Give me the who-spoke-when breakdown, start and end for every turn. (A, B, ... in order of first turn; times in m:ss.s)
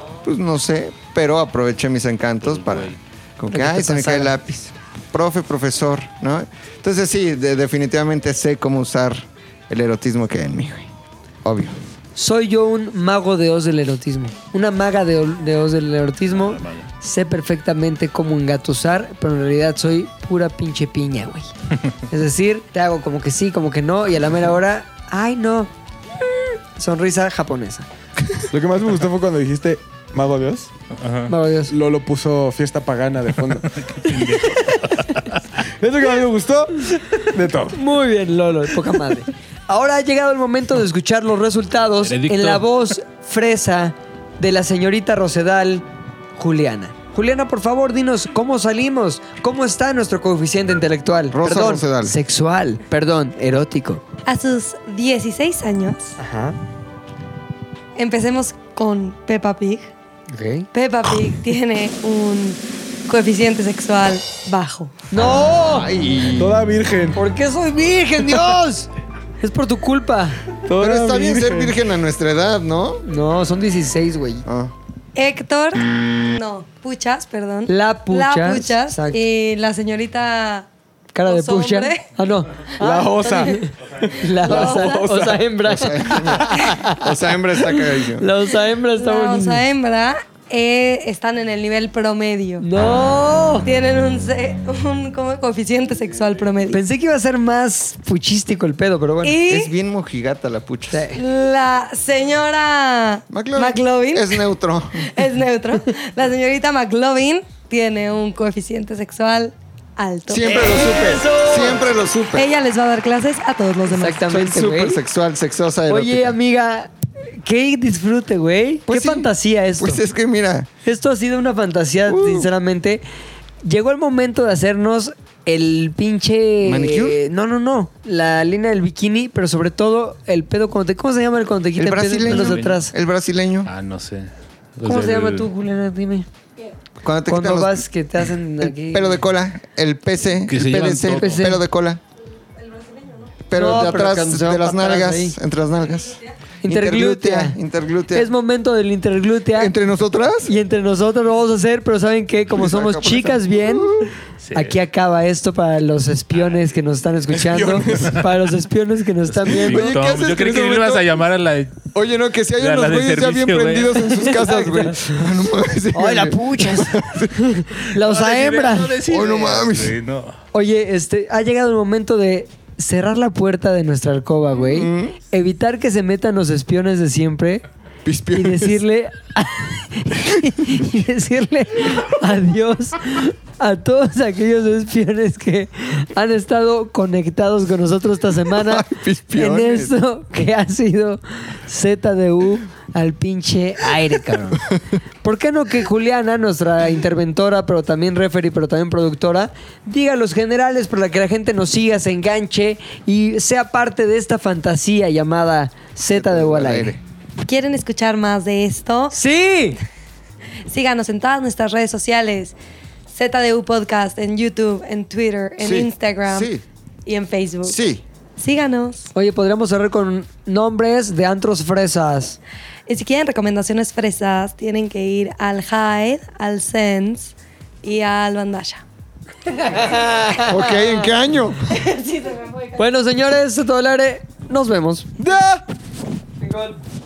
0:00.2-0:10.9 A
0:02.4-0:03.0 B
0:03.5-0:04.3 C
0:11.4-0:11.8 A
0:12.2-0:21.5 C
0:16.4-0:16.9 B
0:22.1-0:25.7 C
0:26.8-0:27.9 C
0:28.5-0:30.7 D
0:30.9-0:31.3 B
0:31.3-0:31.7 C
0:31.7-0:33.7 D
0:33.6-0:35.4 B
0:34.0-0:35.2 C
0:35.8-0:37.8 D
0:37.7-0:54.0 C
0:42.0-0:42.7 B
0:51.3-0:52.2 A
0:54.3-0:56.2 E
0:56.2-0:56.6 C
0:58.0-0:59.9 E
1:00.3-1:00.7 C
1:00.7-1:05.0 E
1:05.1-1:05.9 C
1:05.4-1:06.7 A
1:06.4-1:07.2 D
1:07.2-1:08.9 C
1:09.4-1:10.4 C
1:10.7-1:11.8 D
1:10.8-1:13.0 A
1:13.1-1:14.4 C
1:14.4-1:14.7 A
1:15.2-1:20.7 E
1:17.7-1:19.2 C
1:21.1-1:27.1 C
1:21.3-1:22.1 E
1:22.8-1:25.4 D
1:23.2-1:23.5 E
1:24.4-1:25.1 E
1:25.6-1:28.3 A
1:27.6-1:29.6 C
1:29.0-1:32.6 E
1:32.6-1:33.7 C
1:33.6-1:36.8 E
1:36.7-1:39.4 C
1:39.2-1:39.7 E
1:39.5-1:41.1 A
1:40.9-1:41.2 C
1:41.2-1:44.4 E
1:43.3-1:45.1 A
1:45.0-1:50.6 E
1:50.3-1:52.5 A
1:50.4-1:51.9 C
1:52.4-1:54.2 E
1:53.9-1:55.0 C
1:54.2-1:56.4 A
1:55.9-2:00.0 C
1:58.9-2:00.7 A
2:00.8-2:03.0 C
2:02.1-2:02.5 A
2:03.6-2:12.9 C
2:06.6-2:07.2 A
2:11.8-2:13.7 A
2:12.2-2:12.8 B
2:13.6-2:15.5 B
2:14.8-2:16.3 C
2:17.0-2:17.8 A
2:17.3-2:19.2 C
2:18.6-2:22.0 A
2:20.5-2:21.4 B
2:21.1-2:21.6 C
2:22.7-2:23.3 E
2:23.5-2:28.3 A
2:23.5-2:25.4 C
2:26.6-2:27.6 C
2:28.1-2:29.7 C
2:29.6-2:30.5 A
2:30.5-2:34.0 C
2:32.5-2:34.1 A
2:34.4-2:34.8 B
2:34.5-2:39.9 C
2:37.4-2:38.2 D
2:39.5-2:41.1 A
2:39.5-2:41.9 B
2:41.9-2:47.7 A
2:42.6-2:44.4 B
2:44.4-2:45.2 C
2:45.9-2:49.0 C
2:47.9-2:50.4 B
2:49.1-2:50.0 A
2:50.5-2:57.6 C
2:54.5-2:55.2 A
2:58.0-2:58.8 A
2:58.3-3:14.7 C
3:08.5-3:10.0 A
3:14.5-3:14.8 A
3:15.2-3:27.0 C
3:26.1-3:27.0 A
3:27.4-3:29.2 E
3:29.1-3:29.8 C
3:30.7-3:32.6 E
3:33.1-3:36.5 E
3:35.6-3:36.6 A
3:37.1-3:37.8 E
3:37.6-3:38.0 A
3:38.4-3:39.1 E
3:39.1-3:42.4 C
3:42.9-3:48.8 E
3:49.6-3:50.8 C
3:49.7-3:50.2 E
3:50.5-3:51.7 A
3:51.7-3:52.8 E
3:52.8-3:55.1 C
3:55.2-3:55.6 D
3:56.4-3:56.8 C